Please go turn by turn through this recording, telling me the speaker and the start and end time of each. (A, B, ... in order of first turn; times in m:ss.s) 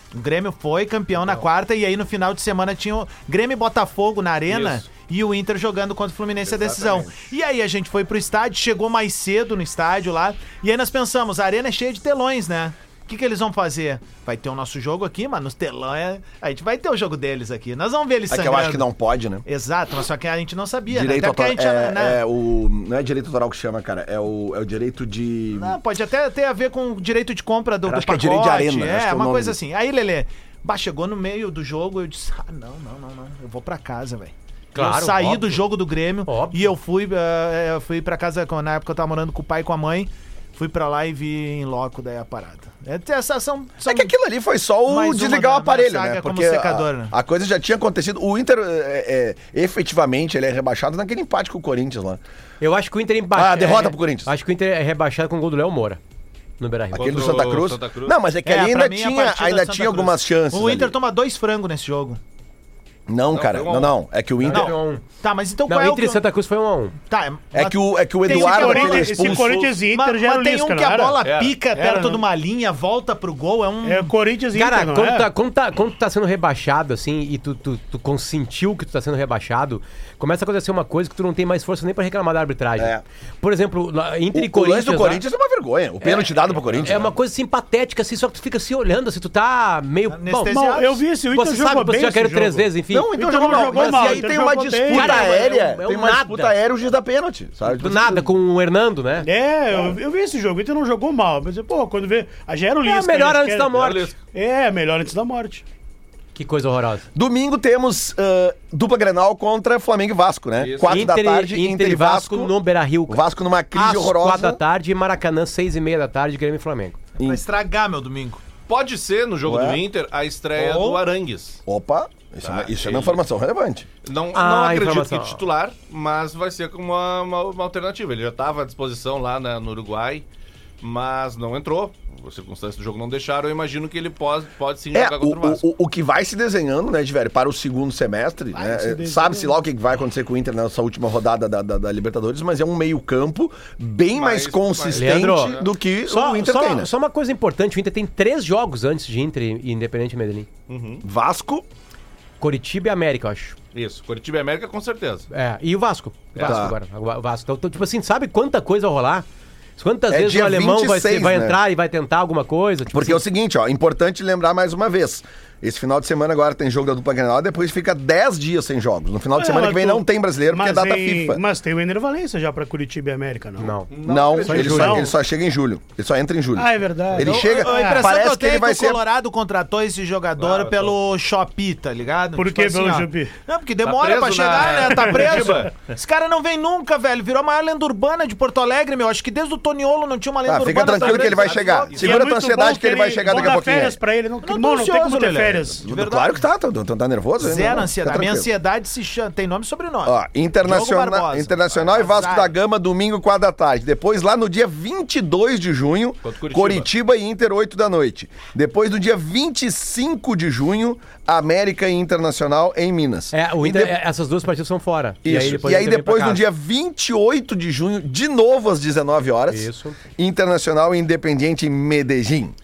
0:00.1-0:18.8 A
0:04.5-0:04.8 B
0:06.4-0:07.1 B
0:18.3-0:19.4 C
0:19.5-0:22.2 A
0:20.9-0:25.8 C
0:25.5-0:44.1 A
0:27.8-0:29.6 C
0:34.7-0:35.6 D
0:36.3-0:36.8 D
0:43.8-0:52.2 C
0:44.9-0:47.1 A
0:52.6-0:56.0 D
0:53.4-0:54.3 C
0:56.6-0:57.4 D
0:57.0-0:58.2 B
0:57.0-1:00.9 C
0:58.4-1:02.2 A
1:03.1-1:04.7 C
1:03.3-1:03.9 B
1:04.4-1:05.0 D
1:04.5-1:06.2 A
1:05.7-1:07.0 D
1:07.1-1:14.1 A
1:07.5-1:09.5 C
1:08.3-1:12.2 E
1:11.2-1:11.6 B
1:13.8-1:15.3 E
1:14.5-1:25.2 D
1:22.8-1:23.0 C
1:24.3-1:27.1 C
1:26.0-1:30.5 D
1:26.6-1:27.1 B
1:30.1-1:31.0 A
1:30.5-1:35.3 E
1:31.3-1:34.3 D
1:32.9-1:38.3 C
1:34.9-1:36.6 D
1:37.6-1:39.3 D
1:39.2-1:43.8 E
1:42.8-1:44.1 D
1:43.7-1:44.2 B
1:44.3-1:45.6 E
1:46.4-1:47.1 D
1:47.2-1:52.5 C
1:50.6-1:51.0 B
1:50.8-1:53.2 D
1:53.1-1:54.6 C
1:53.7-1:57.0 D
1:57.2-1:57.4 C
1:57.2-1:58.4 A
1:58.7-2:01.6 B
1:59.4-1:59.8 C
2:00.6-2:01.0 A
2:01.7-2:03.9 C
2:02.4-2:03.2 B
2:04.0-2:10.2 B
2:04.3-2:05.4 D
2:10.8-2:15.6 B
2:14.9-2:26.9 C
2:18.6-2:19.5 E
2:24.1-2:25.7 B
2:24.9-2:30.5 D
2:30.7-2:31.0 B
2:31.0-2:31.7 C
2:32.4-2:33.6 D
2:33.7-2:35.3 B
2:35.3-2:39.2 D
2:36.3-2:36.6 B
2:36.4-2:36.8 C
2:39.8-2:43.2 D
2:40.1-2:41.6 C
2:42.9-2:51.4 C
2:49.4-2:53.8 E
2:53.6-2:53.9 D
2:53.9-2:55.0 B
2:54.0-2:59.0 C
2:54.4-2:55.0 D
2:54.6-2:55.1 E
2:56.6-2:58.1 E
2:57.2-3:12.1 A
3:00.4-3:01.0 B
3:02.4-3:03.4 E
3:03.8-3:05.9 B
3:05.0-3:05.5 E
3:10.5-3:14.0 C
3:10.8-3:12.3 B
3:12.0-3:15.9 E
3:14.4-3:16.4 A
3:15.8-3:18.5 C
3:17.4-3:22.5 A
3:20.0-3:34.0 C
3:26.2-3:26.9 B
3:33.3-3:36.4 D
3:35.2-3:42.6 C
3:39.5-3:40.0 D